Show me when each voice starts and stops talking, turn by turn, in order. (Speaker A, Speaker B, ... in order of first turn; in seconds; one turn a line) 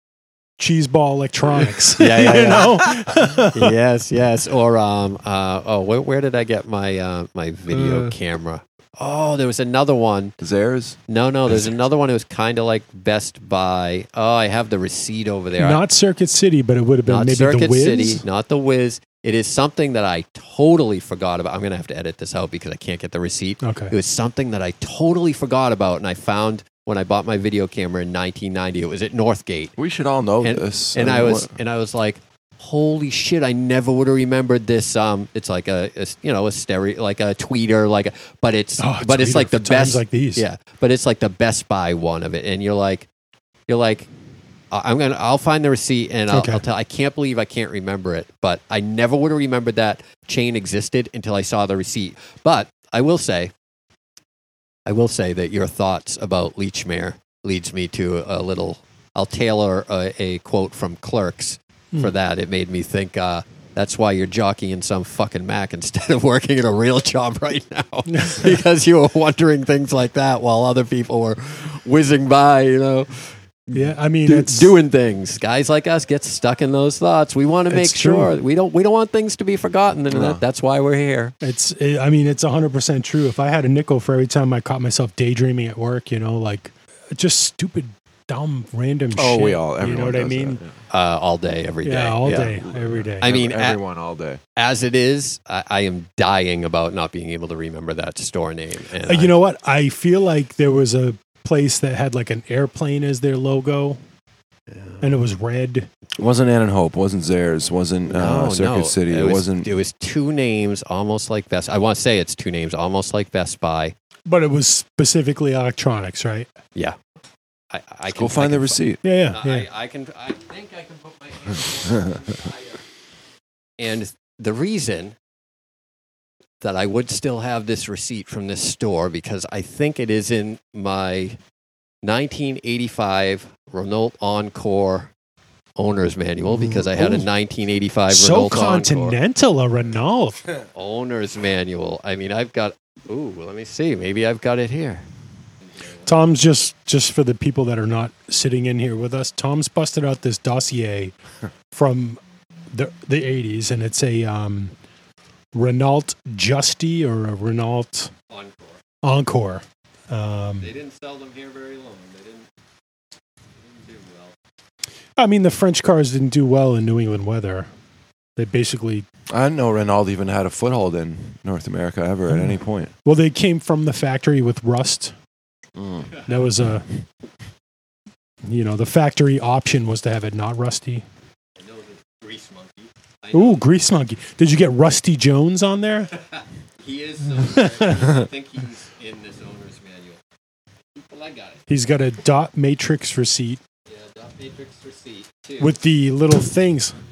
Speaker A: 0.6-3.7
Speaker B: 2.0-2.8
Speaker B: 3.5-10.4
Speaker C: 7.7-8.1
Speaker C: 10.4-11.7
Speaker B: 11.1-15.8
Speaker A: 15.6-18.2
Speaker B: 17.1-29.7
Speaker A: 23.6-23.9
Speaker C: 29.8-31.6
Speaker B: 30.4-43.1
Speaker A: 38.8-40.5
Speaker B: 43.7-44.1
Speaker B: 44.7-53.5
Speaker A: 46.3-46.6
Speaker B: 54.9-81.3
Speaker A: 68.1-68.4
Speaker A: 73.7-74.7
Speaker A: 77.7-78.3
Speaker C: 80.1-80.4
Speaker A: 81.4-90.6
Speaker C: 89.2-90.7
Speaker B: 90.9-92.5
Speaker A: 91.8-93.3
Speaker C: 92.4-94.4
Speaker B: 93.2-93.8
Speaker B: 94.6-99.3
Speaker A: 99.0-104.0
Speaker B: 104.7-105.2
Speaker A: 105.0-105.9
Speaker C: 106.2-109.7
Speaker B: 108.1-114.0
Speaker A: 114.3-116.5
Speaker B: 117.7-122.8
Speaker C: 118.1-119.1
Speaker A: 119.0-119.7
Speaker B: 123.8-125.2
Speaker B: 126.6-131.4
Speaker B: 132.0-135.1
Speaker B: 135.8-139.2
Speaker A: 136.6-137.3
Speaker A: 138.1-140.4
Speaker B: 140.8-145.1
Speaker A: 146.0-151.1
Speaker A: 151.7-152.2
Speaker A: 152.7-154.7
Speaker A: 155.5-158.1
Speaker B: 158.3-158.8
Speaker A: 159.0-160.7
Speaker B: 160.6-162.5
Speaker B: 163.6-164.3
Speaker A: 165.2-167.7
Speaker A: 168.4-169.1
Speaker C: 169.3-172.9
Speaker A: 172.3-175.1
Speaker C: 175.8-176.2
Speaker A: 176.3-177.0
Speaker A: 178.5-181.0
Speaker B: 181.6-183.7
Speaker A: 183.3-186.1
Speaker B: 186.3-190.2
Speaker A: 187.4-188.1
Speaker B: 190.9-191.6
Speaker A: 191.7-193.6
Speaker B: 193.9-195.7
Speaker A: 195.6-196.9